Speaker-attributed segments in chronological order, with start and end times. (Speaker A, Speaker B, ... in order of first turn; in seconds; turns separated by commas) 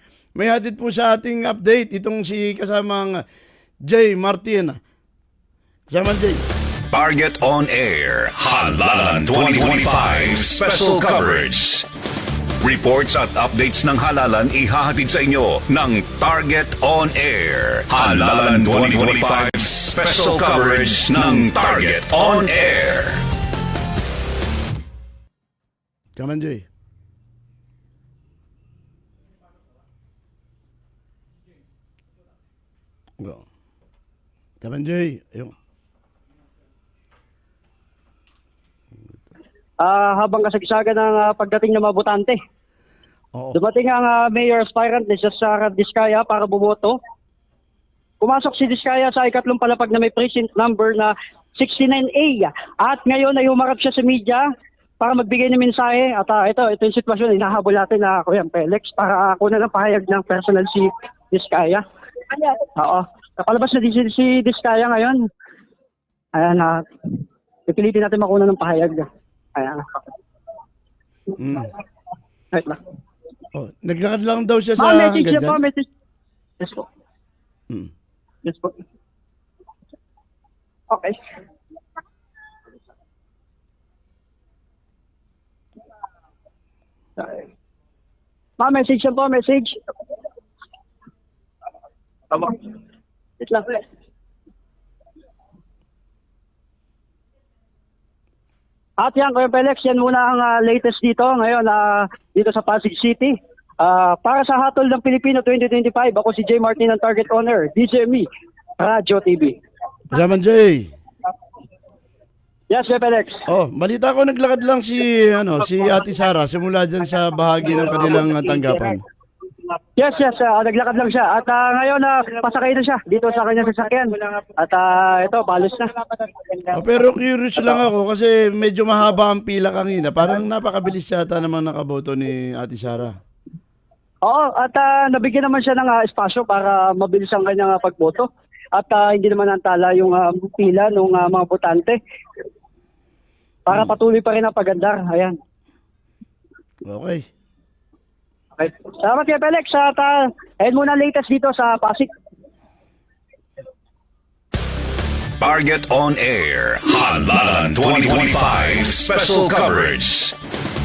Speaker A: 0.4-3.1, Speaker A: 3.9-4.8, Speaker A: 5.9-6.4, Speaker B: 6.9-11.9, Speaker B: 12.6-23.2, Speaker A: 26.2-26.7, Speaker A: 34.6-35.5, Speaker C: 39.8-42.4, Speaker C: 43.5-47.0, Speaker C: 48.2-54.4, Speaker C: 55.0-65.2, Speaker C: 66.4-66.8, Speaker C: 67.7-70.1, Speaker A: 71.4-71.7, Speaker C: 72.5-72.8, Speaker A: 73.5-75.6, Speaker C: 74.8-75.9, Speaker C: 76.6-76.9, Speaker C: 78.5-78.8, Speaker C: 80.9-81.2, Speaker C: 87.2-87.4, Speaker C: 88.6-89.8, Speaker C: 92.3-92.7, Speaker C: 93.4-93.8, Speaker C: 99.0-108.3, Speaker C: 108.8-109.5, Speaker A: 110.1-110.9, Speaker C: 112.7-113.5, Speaker A: 113.5-119.0, Speaker C: 118.0-118.3, Speaker C: 120.0-126.7, Speaker A: 126.7-133.1, Speaker C: 134.2-142.0, Speaker C: 143.7-145.4, Speaker A: 146.9-147.2, Speaker C: 148.6-152.1, Speaker B: 155.4-160.4